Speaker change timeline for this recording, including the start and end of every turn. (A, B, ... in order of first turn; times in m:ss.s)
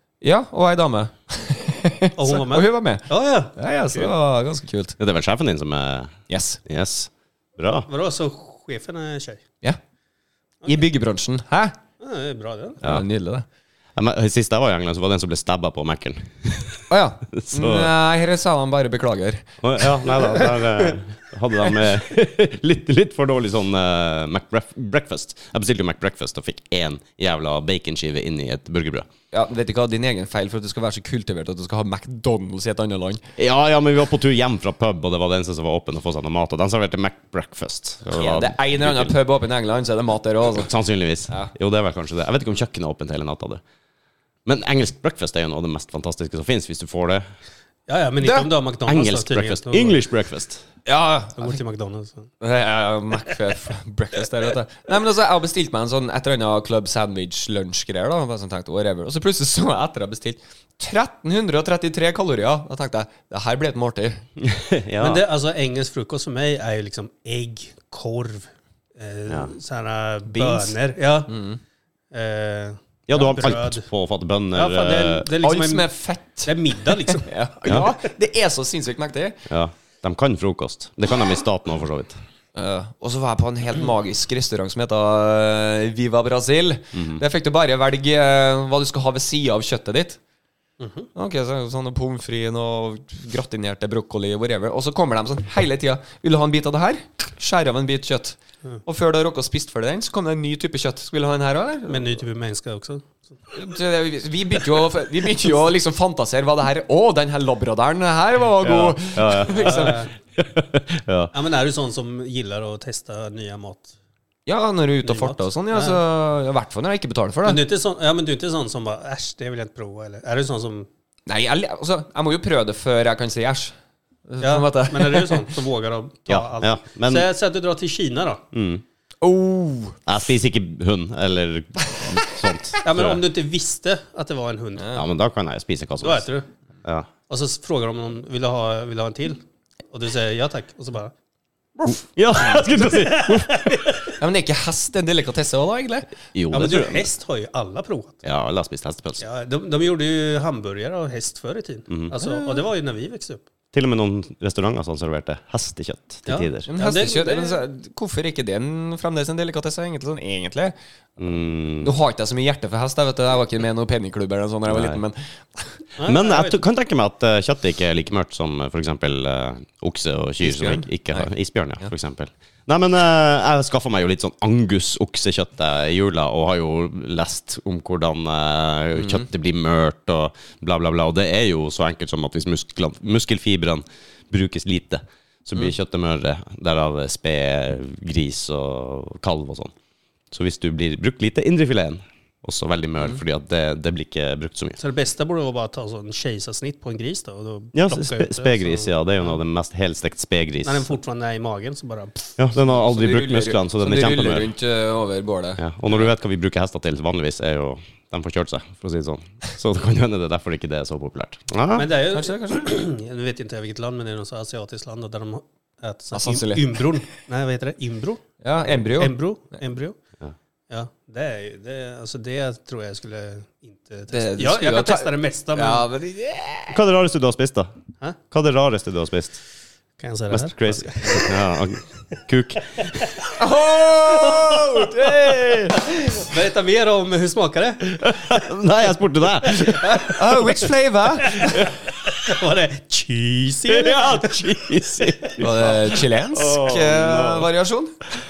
0:00.2-0:05.0 A
0:02.2-0:04.0 B
0:05.0-0:07.9 C
0:06.3-0:06.6 A
0:07.9-0:09.4 B
0:10.7-0:11.8 A
0:12.0-0:12.8 B
0:12.8-0:13.4 A
0:14.0-0:17.9 C
0:16.9-0:20.2 A
0:19.6-0:29.1 C
0:29.3-0:33.2 A
0:33.4-0:39.1 C
0:38.1-0:40.7 A
0:40.6-0:43.6 C
0:44.5-0:47.2 C
0:47.9-0:50.0 B
0:48.2-0:48.5 A
0:48.9-0:50.6 C
0:50.9-0:51.6 A
0:51.4-0:52.3 B
0:52.4-1:04.2 A
1:04.4-1:05.2 C
1:05.0-1:11.3 B
1:10.3-1:10.8 A
1:11.3-1:11.6 A
1:12.1-1:13.9 B
1:13.1-1:15.3 C
1:14.5-1:15.9 B
1:15.4-1:19.4 A
1:16.4-1:17.3 B
1:17.6-1:17.9 C
1:19.5-1:22.2 C
1:22.6-1:30.2 A
1:26.9-1:27.2 C
1:30.8-1:31.1 B
1:31.2-1:42.1 A
1:41.9-1:43.3 B
1:43.5-1:50.0 A
1:48.6-1:51.3 C
1:49.5-1:50.1 B
1:51.3-1:53.9 B
1:54.5-1:57.6 A
1:55.0-1:56.0 B
1:57.4-2:00.9 B
2:01.3-2:03.7 A
2:04.3-2:05.5 A
2:04.4-2:08.4 B
2:06.3-2:07.3 C
2:08.5-2:08.8 C
2:09.2-2:10.0 A
2:10.1-2:13.2 C
2:12.8-2:15.0 B
2:14.8-2:15.0 A
2:15.0-2:16.2 C
2:16.0-2:16.5 B
2:17.3-2:19.4 B
2:19.9-2:21.1 B
2:21.8-2:22.0 B
2:22.0-2:23.7 C
2:22.6-2:24.2 B
2:24.2-2:26.1 A
2:26.3-2:27.1 C
2:26.5-2:28.2 B
2:28.2-2:29.2 C
2:29.2-2:33.4 B
2:32.2-2:32.6 A
2:33.7-2:36.7 C
2:36.3-2:37.6 B
2:36.7-2:40.8 A
2:41.2-2:41.9 C
2:41.8-2:45.3 A
2:44.7-2:45.0 C
2:46.0-2:46.6 B
2:46.0-3:09.7 C
2:50.4-2:51.3 A
2:59.0-2:59.2 A
3:10.3-3:14.8 C
3:14.8-3:18.9 B
3:17.8-3:20.9 C
3:20.6-3:22.4 B
3:22.4-3:24.5 C
3:22.8-3:25.6 A
3:25.6-3:31.9 C
3:31.8-3:40.0 B
3:32.1-3:32.7 A
3:36.1-3:36.9 A
3:38.4-3:39.2 A
3:40.7-3:45.9 B
3:44.1-3:46.8 A
3:46.7-3:47.7 C
3:48.3-3:49.4 C
3:50.0-3:51.3 B
3:50.3-3:52.9 C
3:52.8-3:53.4 B
3:53.4-3:55.8 A
3:54.2-3:54.9 B
3:55.5-3:58.5 B
3:58.0-4:00.1 C
3:59.4-4:00.6 B
4:00.0-4:01.7 A
4:01.2-4:04.4 B
4:03.7-4:07.5 C
4:05.4-4:08.0 A